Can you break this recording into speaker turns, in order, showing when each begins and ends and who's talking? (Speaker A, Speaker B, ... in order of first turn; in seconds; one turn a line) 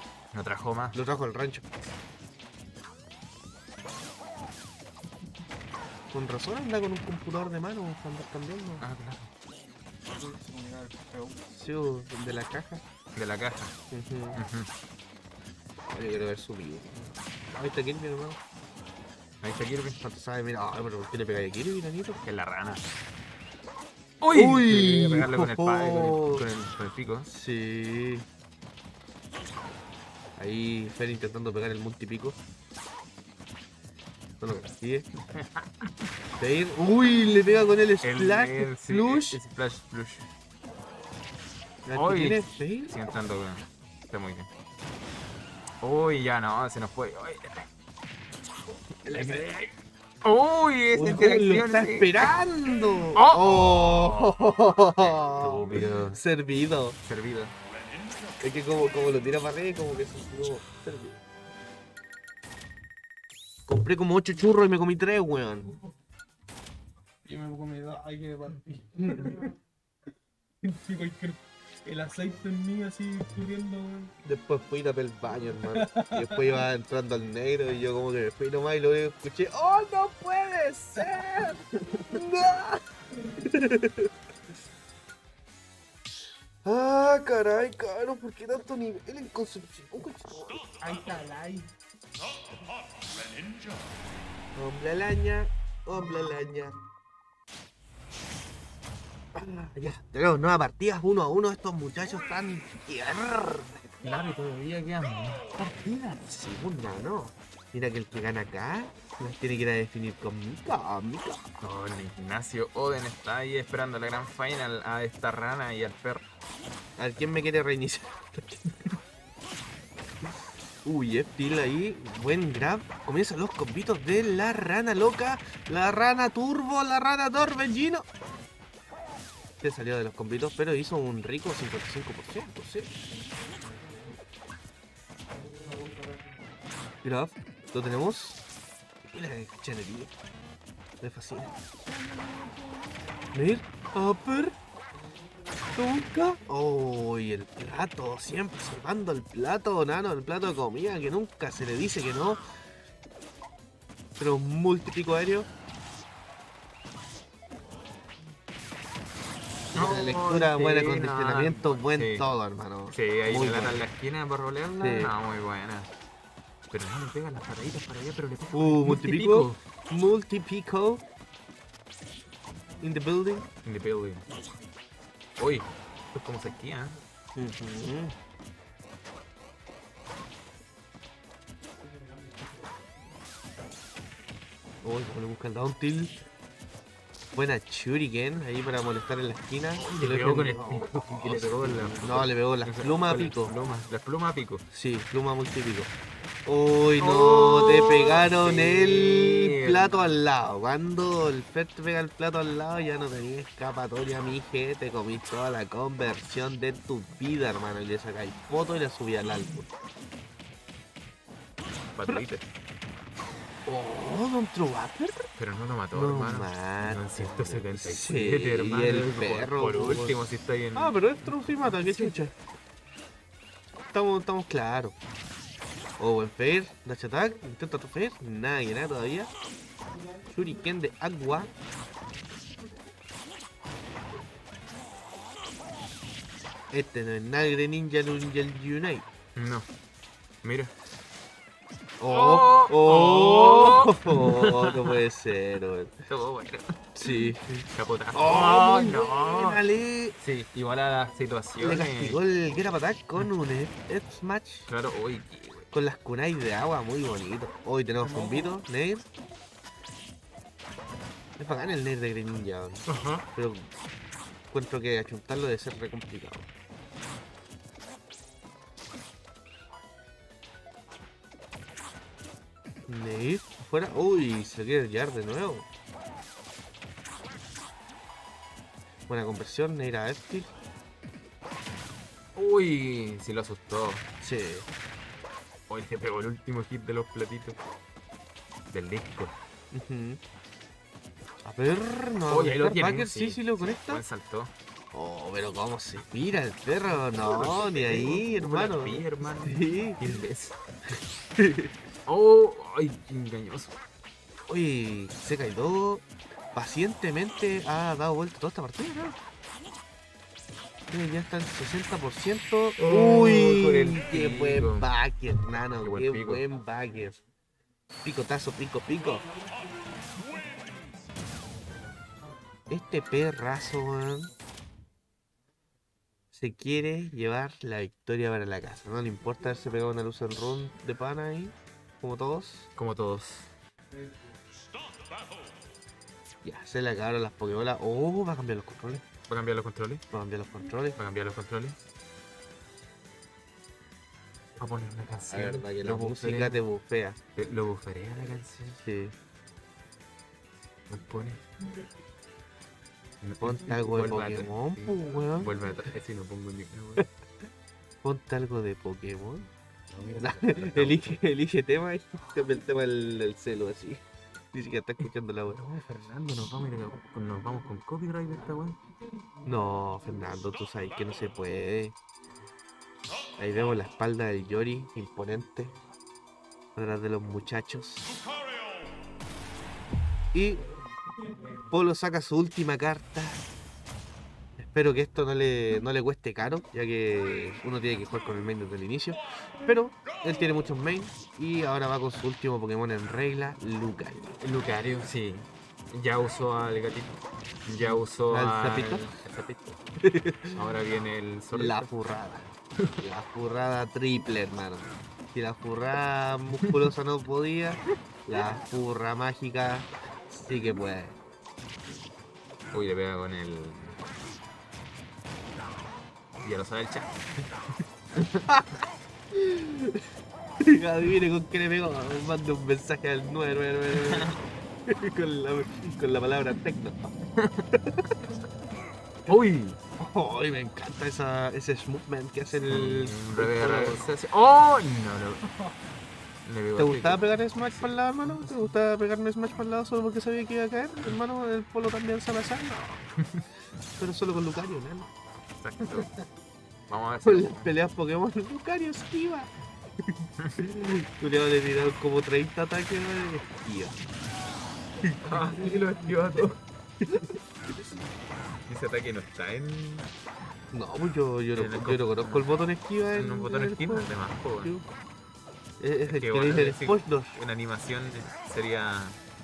Speaker A: 0.3-1.0
Speaker B: 0.9-1.7
Speaker B: 6.1-8.8
Speaker A: 8.8-9.3
Speaker C: 10.1-11.4
Speaker B: 11.5-12.8
Speaker A: 13.2-13.8
Speaker B: 13.9-14.4
Speaker A: 14.3-14.7
Speaker B: 15.9-16.9
Speaker B: 17.5-18.4
Speaker A: 19.4-20.0
Speaker B: 20.0-22.2
Speaker A: 22.2-22.9
Speaker A: 24.2-27.3
Speaker B: 24.3-26.4
Speaker B: 27.3-28.3
Speaker B: 30.4-32.4
Speaker B: 34.4-35.1
Speaker A: 35.3-35.9
Speaker B: 36.4-39.4
Speaker A: 38.0-40.3
Speaker B: 41.9-42.9
Speaker A: 42.0-44.5
Speaker A: 45.8-47.7
Speaker B: 49.0-49.5
Speaker A: 49.1-49.7
Speaker A: 50.2-52.1
Speaker B: 50.9-57.0
Speaker A: 53.2-54.4
Speaker A: 55.0-56.2
Speaker A: 57.0-57.5
Speaker B: 58.4-61.2
Speaker B: 63.7-65.7
Speaker C: 67.2-69.5
Speaker B: 69.0-69.4
Speaker C: 70.6-74.1
Speaker B: 74.2-82.8
Speaker C: 75.7-76.7
Speaker B: 83.4-84.1
Speaker B: 86.6-90.7
Speaker C: 90.8-91.7
Speaker B: 94.5-96.8
Speaker B: 99.3-103.9
Speaker A: 104.0-105.6
Speaker B: 105.6-111.6
Speaker A: 111.6-116.2
Speaker B: 117.0-119.0
Speaker B: 120.8-128.1
Speaker B: 129.6-132.9
Speaker B: 137.0-138.4
Speaker B: 139.1-140.2
Speaker B: 141.0-141.6
Speaker B: 143.3-144.6
Speaker B: 145.7-152.4
Speaker B: 154.2-155.5
Speaker A: 159.7-162.3
Speaker B: 159.7-163.9
Speaker A: 162.9-165.9
Speaker B: 164.8-165.1
Speaker A: 166.7-169.6
Speaker B: 168.5-171.0
Speaker B: 172.8-173.5
Speaker A: 173.7-174.2
Speaker A: 175.4-177.0
Speaker B: 177.3-178.2
Speaker B: 184.8-186.2
Speaker B: 187.3-193.5
Speaker A: 189.8-194.6
Speaker B: 194.7-195.9
Speaker B: 196.5-209.7
Speaker A: 197.0-200.1
Speaker A: 211.9-212.4
Speaker B: 213.7-215.3
Speaker A: 215.4-222.1
Speaker B: 215.9-220.2
Speaker B: 220.8-222.4
Speaker B: 223.9-225.0
Speaker B: 226.0-229.3
Speaker B: 230.3-231.5
Speaker B: 236.7-239.1
Speaker A: 239.4-239.7
Speaker A: 240.4-240.7
Speaker B: 242.0-246.0
Speaker A: 242.1-245.0
Speaker A: 246.1-249.6
Speaker B: 247.0-250.2
Speaker A: 250.2-252.2
Speaker B: 251.6-254.7
Speaker A: 254.7-255.7
Speaker B: 255.7-259.1
Speaker C: 258.0-258.5
Speaker B: 261.4-263.7
Speaker A: 262.9-263.3
Speaker B: 264.5-266.5
Speaker B: 272.9-275.7
Speaker B: 279.1-280.5
Speaker A: 282.4-284.1
Speaker B: 284.2-284.7
Speaker A: 285.7-287.6
Speaker A: 288.7-289.4
Speaker B: 289.7-290.2
Speaker B: 291.4-294.0
Speaker A: 292.3-294.5
Speaker B: 294.9-300.0
Speaker A: 297.1-300.6
Speaker B: 301.4-301.7
Speaker A: 302.1-303.8
Speaker B: 304.5-309.2
Speaker B: 310.9-317.2
Speaker A: 312.8-314.9
Speaker A: 315.8-316.4
Speaker B: 318.0-319.3
Speaker B: 322.7-324.3
Speaker B: 326.3-332.7
Speaker A: 332.8-333.5
Speaker B: 336.4-339.1
Speaker A: 339.3-340.0
Speaker B: 340.1-341.0
Speaker A: 341.0-341.8
Speaker A: 344.6-346.6
Speaker B: 345.2-347.2
Speaker A: 347.4-348.8
Speaker B: 348.8-349.2
Speaker A: 350.9-351.5
Speaker A: 353.2-357.1
Speaker B: 353.4-355.5
Speaker B: 358.0-359.5
Speaker A: 359.9-361.2
Speaker B: 360.2-365.6
Speaker A: 365.0-368.8
Speaker B: 369.4-372.0
Speaker B: 373.4-375.7
Speaker B: 376.8-378.1
Speaker B: 380.3-380.6
Speaker B: 381.7-383.4
Speaker B: 384.6-394.4
Speaker A: 394.4-399.8
Speaker B: 397.8-399.1
Speaker B: 400.0-400.6
Speaker A: 400.5-401.9
Speaker B: 401.5-402.5
Speaker B: 403.0-411.2
Speaker A: 406.6-406.9
Speaker A: 412.7-414.0
Speaker A: 416.4-417.2
Speaker A: 418.2-418.4
Speaker B: 419.3-420.1
Speaker B: 420.6-427.1
Speaker A: 423.9-424.4
Speaker A: 427.4-427.7
Speaker B: 427.7-428.1
Speaker A: 429.3-429.8
Speaker B: 430.0-434.1
Speaker A: 432.6-435.5
Speaker A: 436.4-438.7
Speaker B: 436.8-443.1
Speaker A: 443.2-443.5
Speaker B: 444.0-445.1
Speaker A: 445.6-446.1
Speaker A: 446.9-447.7
Speaker B: 447.2-449.5
Speaker B: 450.6-454.0
Speaker B: 455.0-455.8
Speaker A: 455.2-456.6
Speaker B: 457.0-457.4
Speaker A: 458.7-460.1
Speaker B: 460.7-464.1
Speaker A: 461.6-462.5
Speaker A: 463.1-464.8
Speaker B: 465.8-467.4
Speaker A: 466.1-469.2